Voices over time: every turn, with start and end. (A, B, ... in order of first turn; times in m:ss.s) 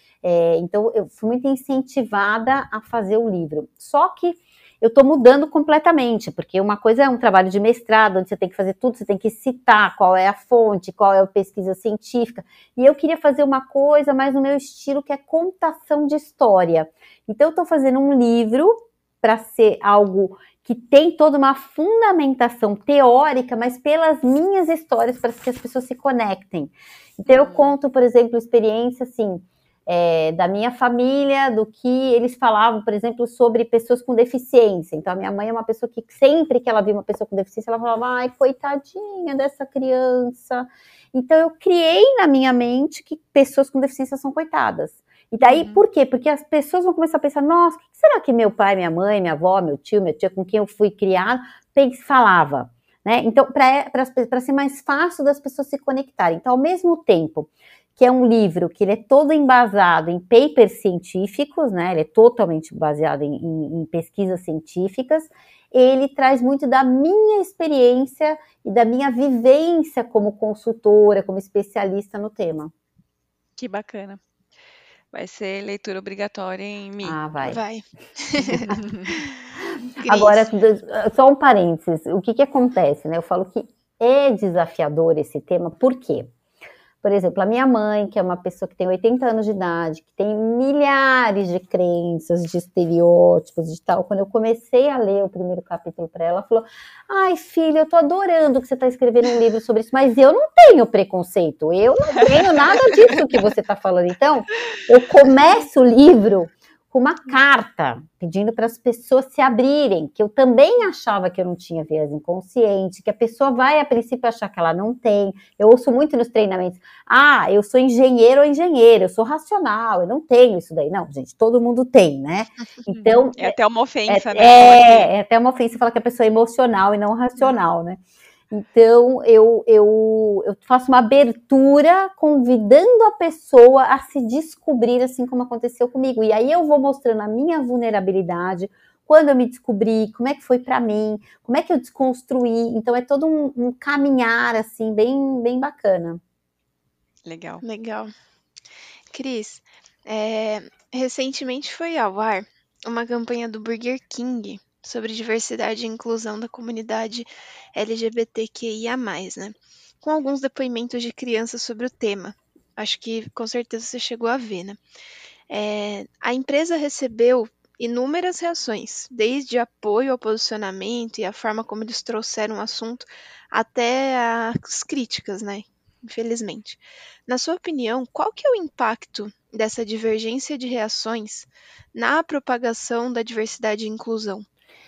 0:00.2-1:12.7 A
0:27.3-0:27.7 B
0:45.4-0:45.8 B
1:13.6-1:14.2 B
1:15.1-1:17.2 B
1:17.0-1:17.6 A
1:17.4-1:19.2 C
1:18.5-1:18.8 A
1:18.9-1:19.1 B
1:19.9-1:20.5 C
1:20.0-1:26.3 A
1:27.0-2:03.5 A
1:42.1-1:42.9 B
2:02.9-2:05.1 B
2:04.1-2:26.2 A
2:27.2-2:27.6 B
2:27.6-2:28.1 C
2:29.1-2:44.8 C
2:45.5-3:04.4 C